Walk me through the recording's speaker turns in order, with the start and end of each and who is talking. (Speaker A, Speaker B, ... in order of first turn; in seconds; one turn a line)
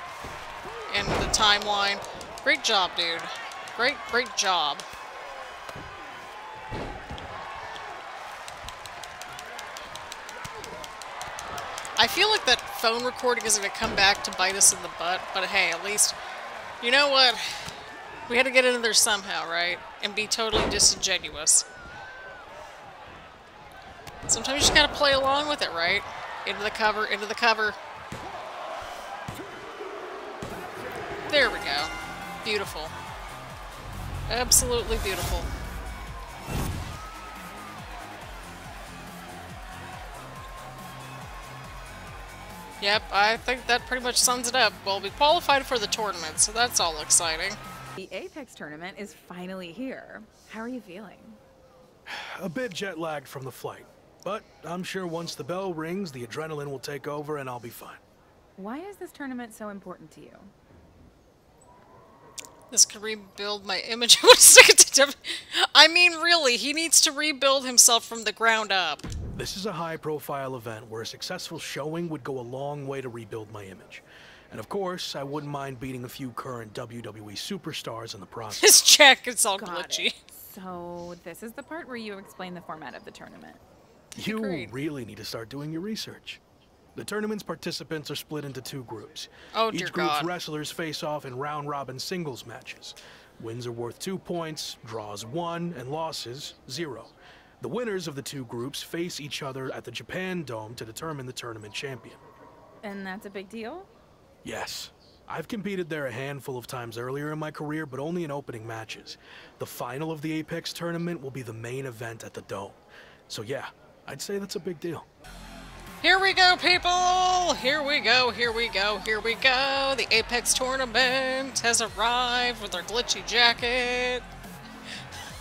Speaker A: 0.9-4.9
Speaker A: 12.0-16.2
Speaker A: 16.8-17.8
Speaker A: 18.3-21.7
Speaker A: 24.3-27.8
Speaker A: 31.3-32.9
Speaker A: 34.3-35.5
Speaker A: 42.8-47.6
Speaker B: 48.0-51.4
Speaker C: 52.1-58.0
Speaker B: 58.6-60.5
Speaker A: 62.7-69.1
Speaker C: 69.3-78.8
Speaker A: 78.6-80.2
Speaker B: 79.6-83.6
Speaker A: 84.2-84.7
Speaker C: 84.2-86.4
Speaker C: 87.0-102.2
Speaker A: 89.5-90.3
Speaker B: 102.8-103.9
Speaker C: 104.4-115.1
Speaker A: 116.0-124.2